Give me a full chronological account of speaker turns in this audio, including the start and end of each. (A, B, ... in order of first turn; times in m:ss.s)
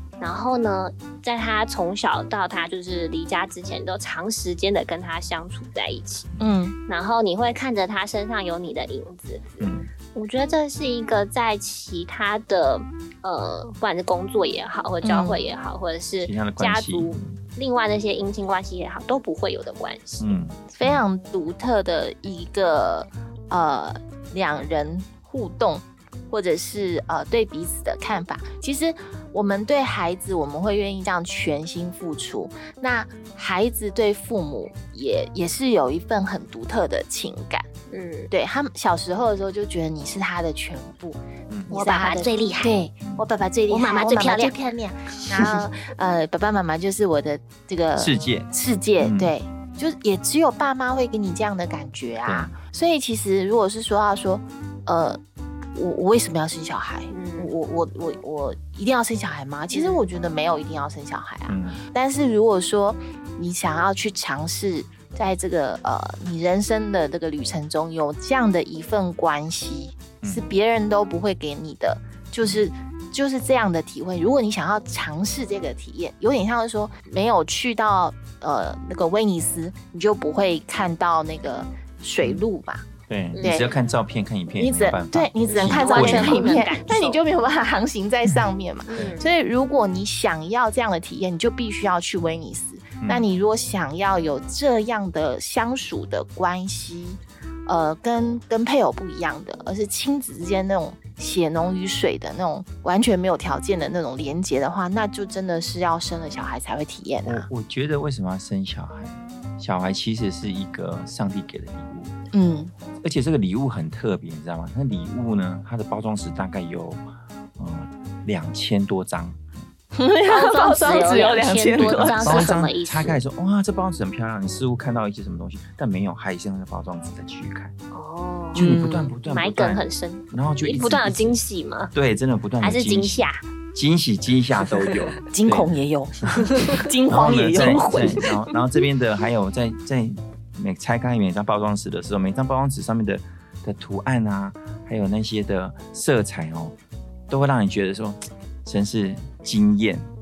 0:00.2-0:06.3 A
0:06.4-0:06.8 B
0:06.9-0:20.3 A
0:09.6-0:09.9 C
0:15.0-0:15.4 B
0:16.2-0:17.4 C
0:20.2-0:21.0 C
0:20.7-0:37.7 B
0:37.9-0:38.3 A
0:38.3-0:55.2 B
0:41.7-0:42.8 A
0:43.7-0:44.5 A
0:45.3-0:45.6 A
0:48.0-0:49.3 C
0:52.3-0:52.5 C
0:55.8-1:22.9 B
0:57.1-0:57.5 A
0:59.7-1:00.1 A
1:01.5-1:01.8 C
1:10.2-1:10.5 C
1:23.1-1:26.5 C
1:23.3-1:23.6 A
1:24.6-1:47.5 B
1:25.5-1:27.2 A
1:28.9-1:29.2 A
1:47.2-1:52.1 C
1:52.3-1:52.7 B
1:53.0-1:57.0 C
1:57.6-1:59.4 C
1:59.9-2:02.6 B
2:00.3-2:03.2 A
2:01.8-2:07.7 C
2:07.9-2:11.9 A
2:08.5-2:11.4 C
2:08.6-2:09.2 B
2:11.9-2:15.7 C
2:12.6-2:13.4 A
2:15.3-2:18.3 B
2:16.2-2:16.5 C
2:17.1-2:26.8 C
2:27.3-2:30.0 C